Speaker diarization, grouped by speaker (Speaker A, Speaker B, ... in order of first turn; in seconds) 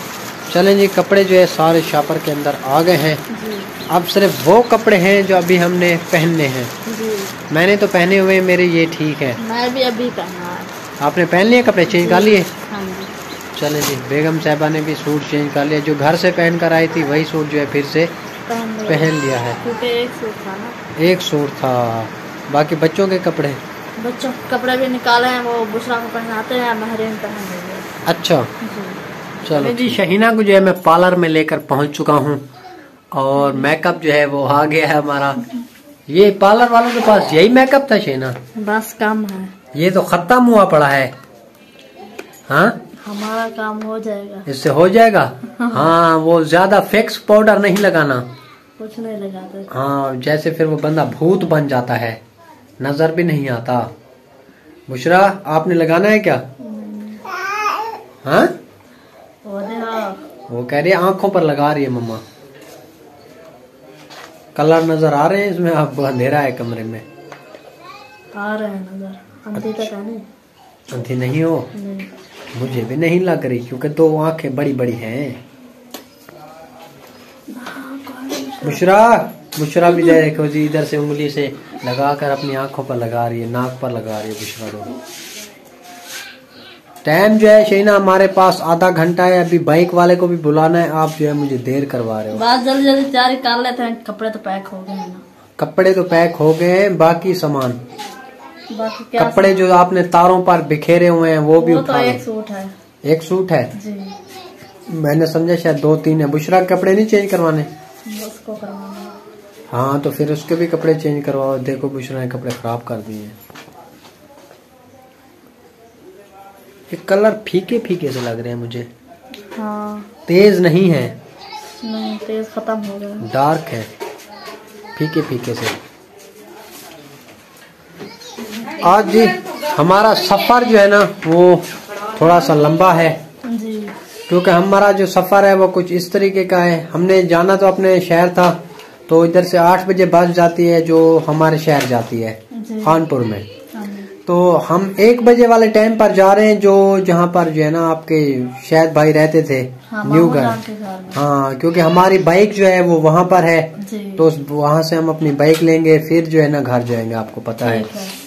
Speaker A: 0.5-3.2, 3.9-6.7, 7.5-9.4, 11.0-12.5, 13.6-18.1, 18.9-19.6, 21.0-23.6, 28.1-28.5, 29.4-32.4, 33.1-35.4, 36.1-38.3, 39.7-41.1, 42.5-42.8, 44.5-48.2, 49.7-52.2, 52.8-53.9, 54.9-56.4, 58.2-58.5, 60.5-62.2, 64.5-67.0, 69.5-69.9, 70.9-71.7, 72.5-75.4, 78.6-84.9, 87.0-92.4, 95.6-97.8, 99.2-102.2, 103.0-103.7, 104.9-107.7, 109.7-113.3, 116.9-118.9, 120.3-121.1, 123.2-123.9, 125.0-125.7, 128.8-133.2, 134.3-138.6, 139.1-143.4, 144.3-150.6, 151.1-157.9
Speaker B: 3.3-3.7, 6.8-7.3, 9.4-10.7, 11.9-13.1, 18.5-20.7, 24.0-27.9, 28.6-30.0, 33.4-33.7, 38.6-39.5, 43.0-44.5, 45.6-45.9, 48.8-49.7, 56.6-57.2, 59.4-60.2, 68.3-70.2, 71.7-72.1, 77.5-78.9, 92.3-95.2, 98.7-99.6, 101.6-102.7, 103.8-104.2, 108.1-109.2, 119.5-120.1, 121.8-123.3, 133.5-133.9, 142.5-143.0, 143.7-144.1, 149.9-151.2, 153.8-154.3, 157.6-158.1